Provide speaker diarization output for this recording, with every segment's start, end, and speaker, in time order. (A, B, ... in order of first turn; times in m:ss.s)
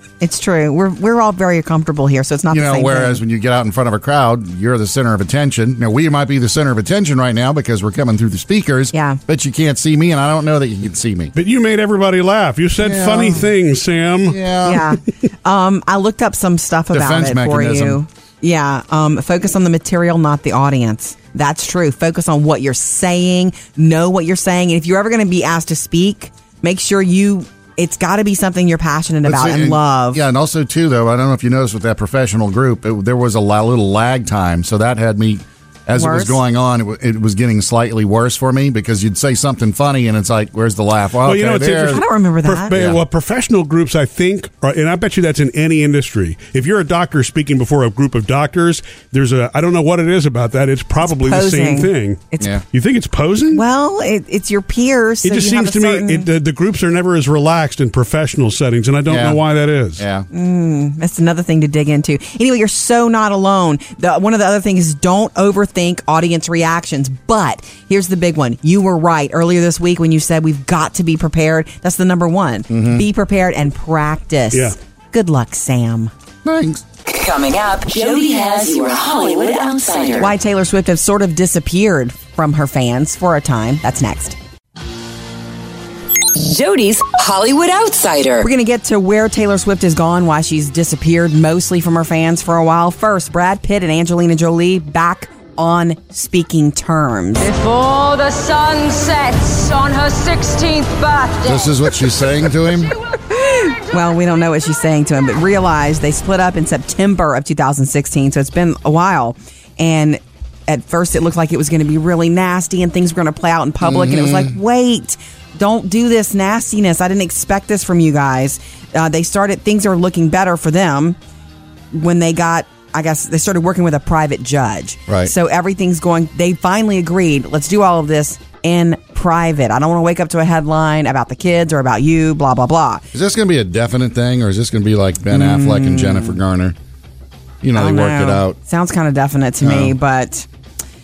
0:00.2-0:03.2 A
0:02.5-0:11.3 B
0:08.9-0:09.2 A
0:11.4-0:14.4 C
0:12.8-0:13.5 B
0:14.3-0:14.8 B
0:14.6-0:30.2 A
0:16.9-0:18.0 B
0:29.2-0:42.0 B
0:35.9-0:36.4 A
0:41.2-0:52.2 C
0:41.9-0:42.8 A
0:42.7-0:43.0 B
0:51.0-0:52.5 A
0:52.7-0:53.6 C
0:53.5-0:56.3 A
0:55.2-1:00.0 C
0:59.1-0:59.4 B
1:00.0-1:00.3 B
1:00.3-1:16.1 A
1:12.7-1:13.1 B
1:16.4-1:16.8 B
1:17.0-1:20.3 D
1:20.2-1:24.4 A
1:26.3-1:28.5 D
1:28.4-1:37.5 A
1:37.4-1:41.9 E
1:41.4-1:42.9 B
1:43.3-2:01.2 A
1:53.8-1:54.6 B
2:01.9-2:13.1 A
2:13.1-2:16.8 B
2:15.3-2:16.4 A
2:17.6-2:18.6 B
2:17.8-2:20.5 A
2:19.6-2:19.9 B